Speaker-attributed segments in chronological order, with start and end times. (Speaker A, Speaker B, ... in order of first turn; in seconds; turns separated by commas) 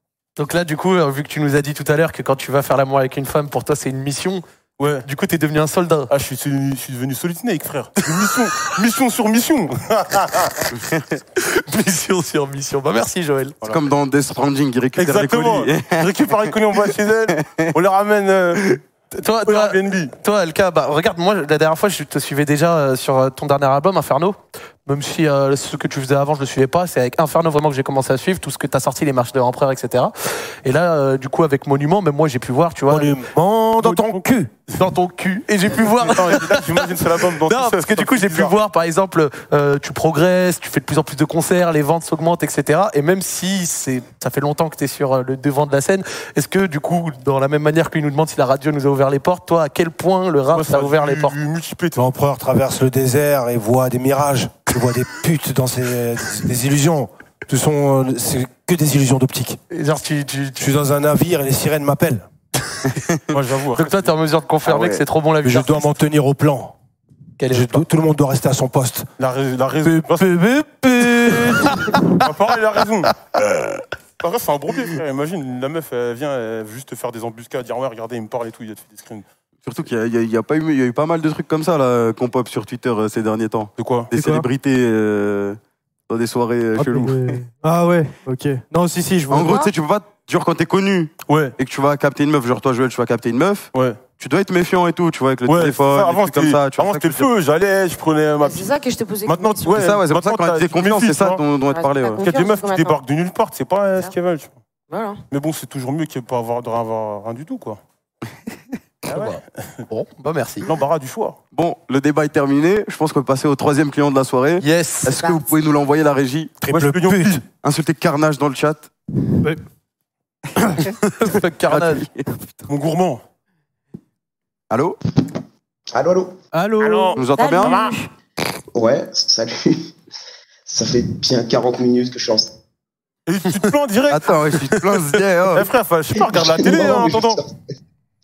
Speaker A: 0.4-4.4, Speaker B: 4.8-5.0, Speaker A: 5.0-6.1, Speaker B: 6.1-10.7, Speaker A: 11.4-13.6, Speaker C: 13.6-16.1, Speaker B: 15.0-18.6, Speaker C: 17.4-17.7, Speaker A: 19.1-33.1, Speaker B: 19.4-20.1, Speaker D: 32.9-34.5, Speaker B: 33.8-34.2, Speaker A: 34.7-51.4, Speaker B: 35.8-38.5, Speaker B: 50.5-52.0, Speaker D: 52.0-59.6, Speaker A: 59.7-60.6, Speaker D: 60.6-62.2, Speaker B: 63.3-64.1, Speaker A: 63.7-66.0, Speaker C: 64.7-65.0, Speaker D: 65.4-66.7, Speaker A: 67.4-67.8, Speaker D: 67.5-69.1, Speaker B: 69.2-70.3, Speaker D: 69.8-71.7, Speaker A: 71.9-72.2, Speaker B: 72.1-73.1, Speaker B: 74.2-79.2, Speaker C: 79.6-85.6, Speaker B: 83.8-84.1, Speaker E: 84.1-84.5, Speaker C: 86.1-87.4, Speaker E: 86.8-89.6, Speaker C: 89.3-97.3, Speaker F: 89.4-89.7, Speaker B: 91.3-91.5, Speaker B: 93.7-94.0, Speaker B: 95.5-98.7, Speaker F: 98.4-99.9, Speaker B: 99.2-101.4, Speaker C: 99.7-102.2, Speaker F: 101.7-103.0, Speaker B: 102.2-104.5, Speaker F: 104.9-105.2, Speaker B: 105.3-107.8, Speaker B: 109.1-109.4, Speaker A: 109.1-110.7, Speaker B: 110.6-111.4, Speaker C: 111.5-116.5, Speaker A: 114.6-115.2, Speaker F: 115.2-115.5, Speaker B: 116.6-117.4, Speaker D: 116.7-117.4, Speaker C: 117.6-118.9, Speaker A: 121.2-122.1, Speaker C: 121.7-122.2, Speaker B: 122.7-123.2, Speaker C: 124.7-125.0, Speaker G: 125.9-126.4, Speaker E: 126.5-127.2, Speaker B: 126.8-127.9, Speaker C: 127.2-127.7, Speaker F: 127.3-128.1, Speaker G: 128.7-129.9, Speaker G: 130.7-132.6, Speaker B: 133.3-137.4, Speaker C: 134.1-135.7, Speaker G: 136.1-137.5